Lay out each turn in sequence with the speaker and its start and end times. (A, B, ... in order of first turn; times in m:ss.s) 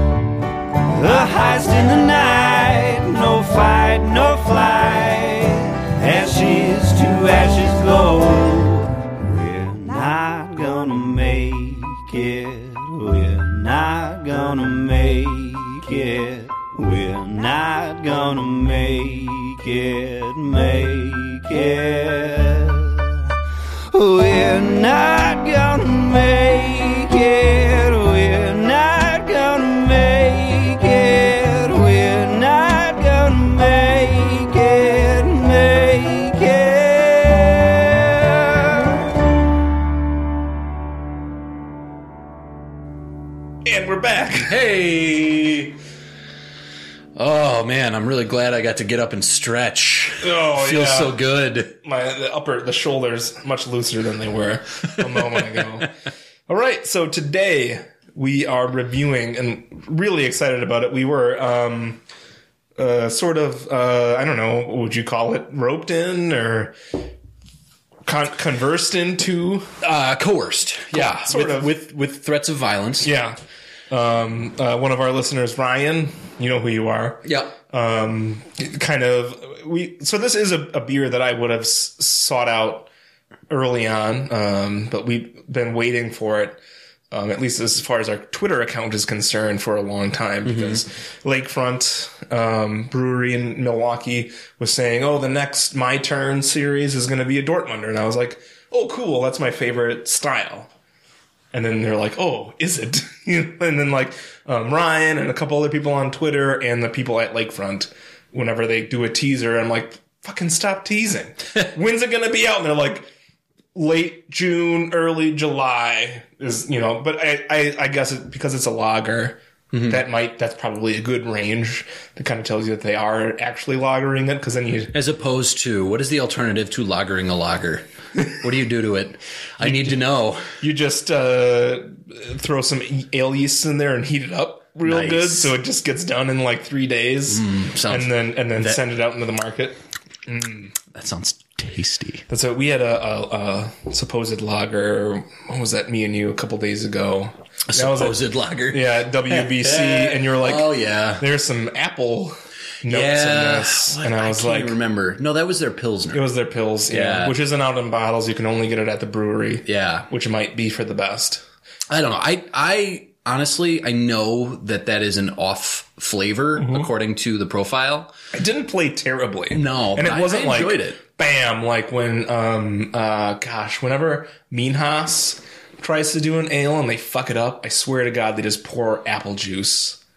0:00.9-0:23.2 A
0:23.9-0:38.9 A
0:43.6-0:44.6 B
0:44.3-0:45.8 C
0:47.2-0:51.7 C
0:50.2-0:51.2 B
0:51.8-0:55.9 B
0:56.5-1:02.0 B
1:02.8-1:06.8 B
1:08.1-1:09.7 B
1:09.8-1:13.1 C
1:10.9-1:11.8 B
1:13.0-1:13.4 B
1:13.9-1:22.9 B
1:17.2-1:17.5 C
1:23.5-1:26.6 B
1:27.1-1:40.7 B
1:30.4-1:30.8 C
1:41.5-1:53.1 B
1:53.8-2:05.0 B
1:59.7-2:00.0 C
2:04.9-2:10.6 C
2:09.6-2:10.0 B
2:10.6-2:20.7 B
2:14.8-2:15.6 C
2:17.3-2:18.8 C
2:20.9-2:22.2 C
2:22.3-2:34.8 B
2:27.7-2:31.2 C
2:32.8-2:36.2 C
2:36.1-2:41.4 B
2:36.9-2:37.4 C
2:39.6-2:40.1 C
2:41.9-2:48.1 C
2:46.6-2:46.9 B
2:48.3-3:00.0 B
2:49.5-2:51.0 C